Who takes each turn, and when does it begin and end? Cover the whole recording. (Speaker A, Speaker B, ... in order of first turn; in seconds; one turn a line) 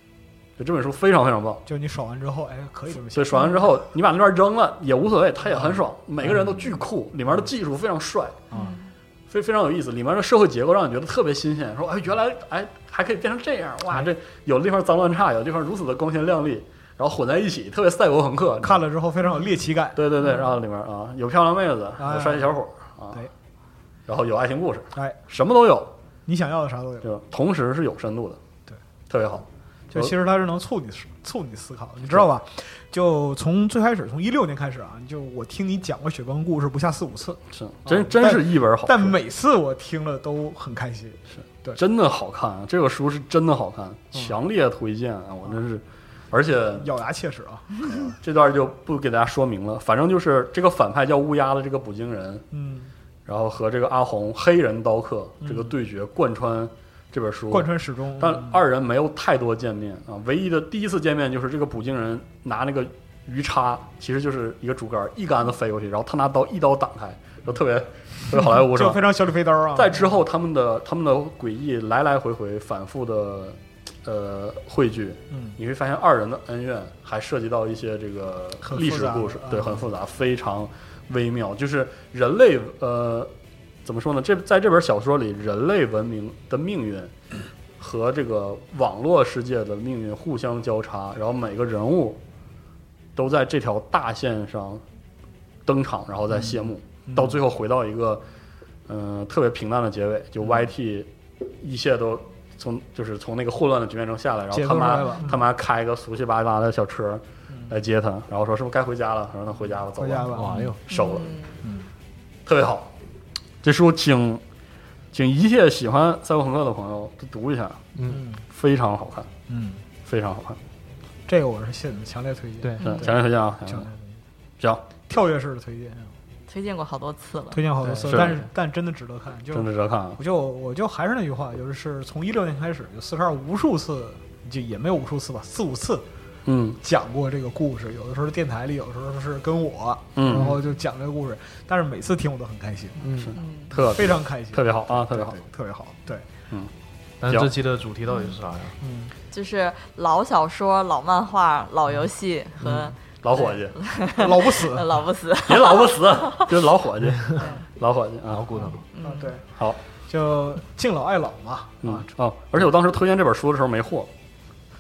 Speaker A: 0.6-1.6
Speaker B: 1.7-3.6
Speaker A: 3.1-8.4
Speaker B: 6.2-6.6
Speaker B: 8.5-8.8
Speaker C: 8.5-8.9
Speaker A: 9.3-18.8
Speaker B: 18.6-20.1
Speaker A: 19.9-23.3
Speaker B: 22.0-22.5
Speaker A: 24.1-25.9
Speaker B: 26.3-27.1
Speaker A: 27.0-28.4
Speaker A: 29.1-30.1
Speaker B: 29.9-41.8
Speaker A: 37.5-39.2
Speaker A: 41.4-46.9
Speaker B: 46.8-48.0
Speaker A: 47.8-52.5
Speaker B: 52.5-52.9
Speaker A: 53.3-69.0
Speaker B: 55.4-55.7
Speaker B: 57.5-58.6
Speaker B: 68.4-70.1
Speaker A: 69.8-83.3
Speaker B: 75.3-75.6
Speaker B: 78.6-79.9
Speaker A: 83.8-87.1
Speaker A: 87.8-92.2
Speaker A: 93.2-94.8
Speaker A: 95.7-98.2
Speaker B: 97.1-97.4
Speaker A: 98.9-111.3
Speaker B: 104.5-105.5
Speaker B: 109.9-110.8
Speaker D: 110.3-110.8
Speaker C: 110.9-111.6
Speaker B: 111.6-111.9
Speaker A: 112.5-112.9
Speaker A: 113.6-114.4
Speaker A: 115.1-117.8
Speaker D: 118.0-118.2
Speaker B: 118.1-118.4
Speaker A: 118.5-119.3
Speaker B: 119.5-119.8
Speaker A: 120.0-120.6
Speaker B: 121.3-124.0
Speaker D: 122.6-122.9
Speaker A: 122.8-123.9
Speaker A: 124.6-124.8
Speaker B: 125.1-126.1
Speaker C: 126.5-127.7
Speaker B: 127.5-136.1
Speaker D: 127.8-128.4
Speaker A: 128.1-128.3
Speaker A: 129.5-130.2
Speaker A: 136.5-136.8
Speaker B: 136.8-143.1
Speaker A: 140.2-140.6
Speaker D: 143.0-143.4
Speaker A: 143.1-145.4
Speaker C: 143.3-143.8
Speaker B: 143.7-146.3
Speaker D: 147.2-148.8
Speaker B: 148.8-149.2
Speaker C: 149.3-156.6
Speaker A: 152.6-153.8
Speaker B: 154.1-155.0
Speaker A: 155.5-158.5
Speaker C: 157.3-157.6
Speaker D: 158.3-158.8
Speaker C: 158.9-159.3
Speaker B: 159.0-159.4
Speaker B: 160.0-162.1
Speaker A: 161.8-164.1